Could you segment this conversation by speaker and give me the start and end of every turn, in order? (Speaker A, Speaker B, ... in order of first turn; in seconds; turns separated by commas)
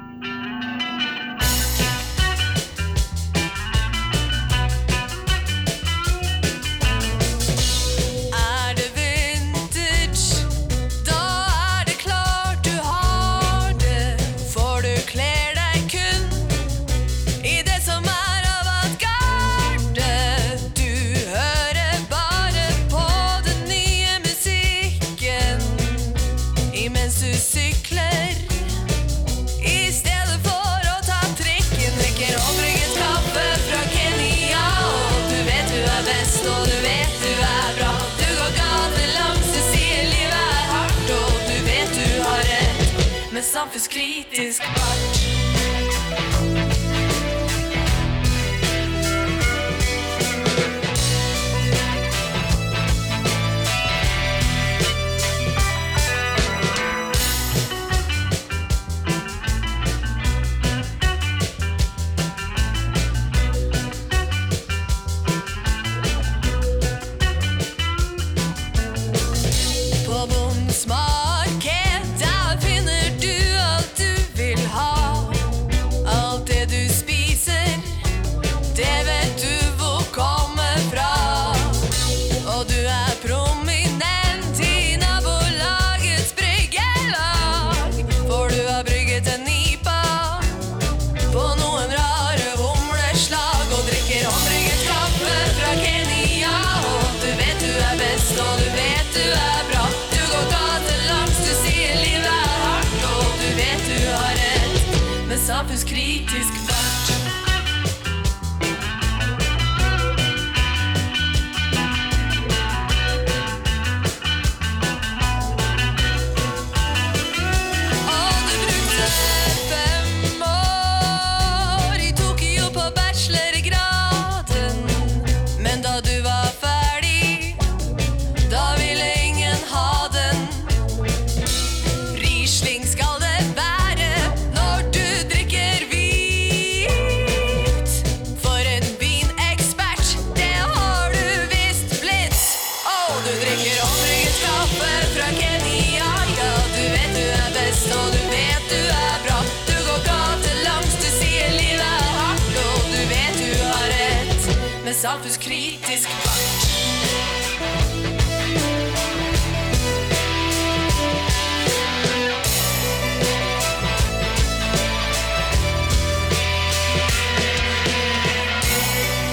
Speaker A: 8.3-16.5, Speaker A: 17.4-26.2, Speaker A: 26.7-28.7, Speaker A: 29.6-45.4, Speaker A: 70.0-78.0, Speaker A: 78.7-90.6, Speaker A: 91.2-107.2, Speaker A: 118.0-127.6, Speaker A: 128.4-130.8, Speaker A: 132.1-156.9